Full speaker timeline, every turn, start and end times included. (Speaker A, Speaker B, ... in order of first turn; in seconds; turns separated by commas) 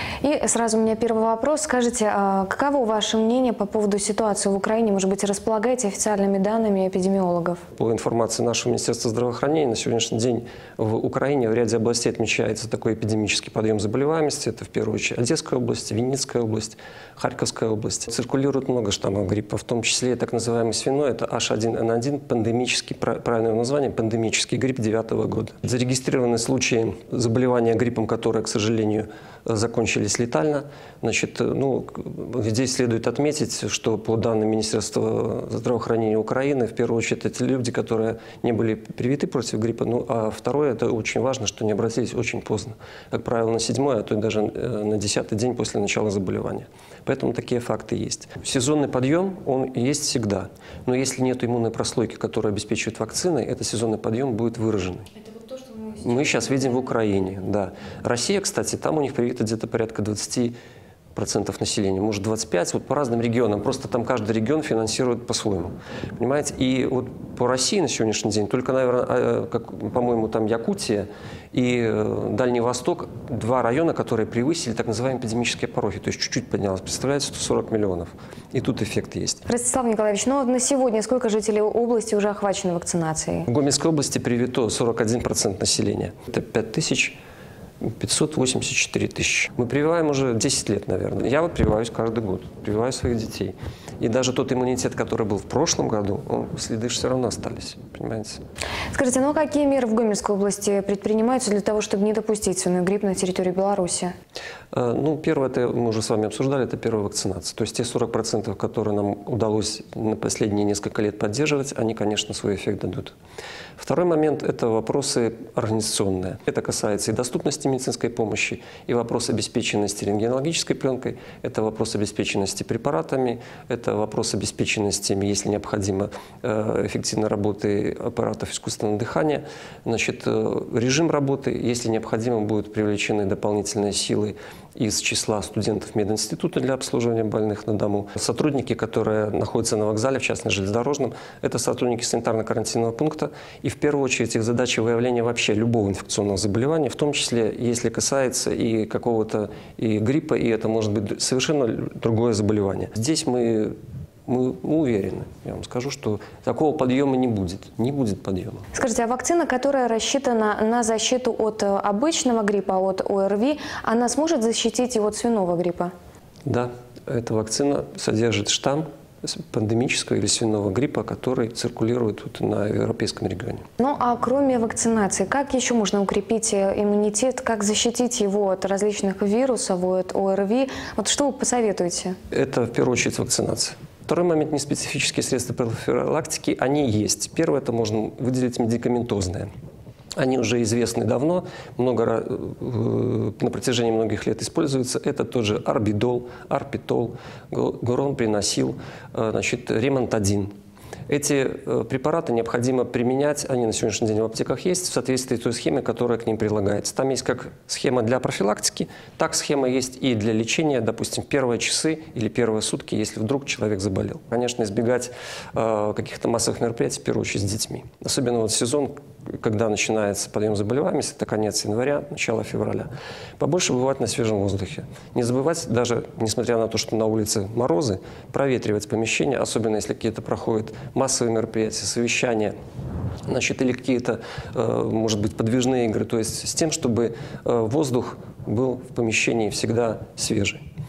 Speaker A: 0.2-7.6, Speaker B: 7.8-55.1, Speaker A: 55.2-56.4, Speaker B: 56.0-60.5, Speaker B: 61.1-79.4, Speaker A: 79.5-83.5, Speaker B: 83.5-87.2, Speaker B: 87.8-98.4, Speaker A: 98.9-104.1, Speaker B: 104.7-113.1, Speaker B: 113.8-158.7, Speaker A: 158.7-165.9, Speaker B: 166.4-173.7, Speaker A: 173.8-182.2, Speaker B: 182.3-189.5, Speaker B: 190.2-200.5, Speaker B: 201.1-232.5, Speaker B: 233.3-240.6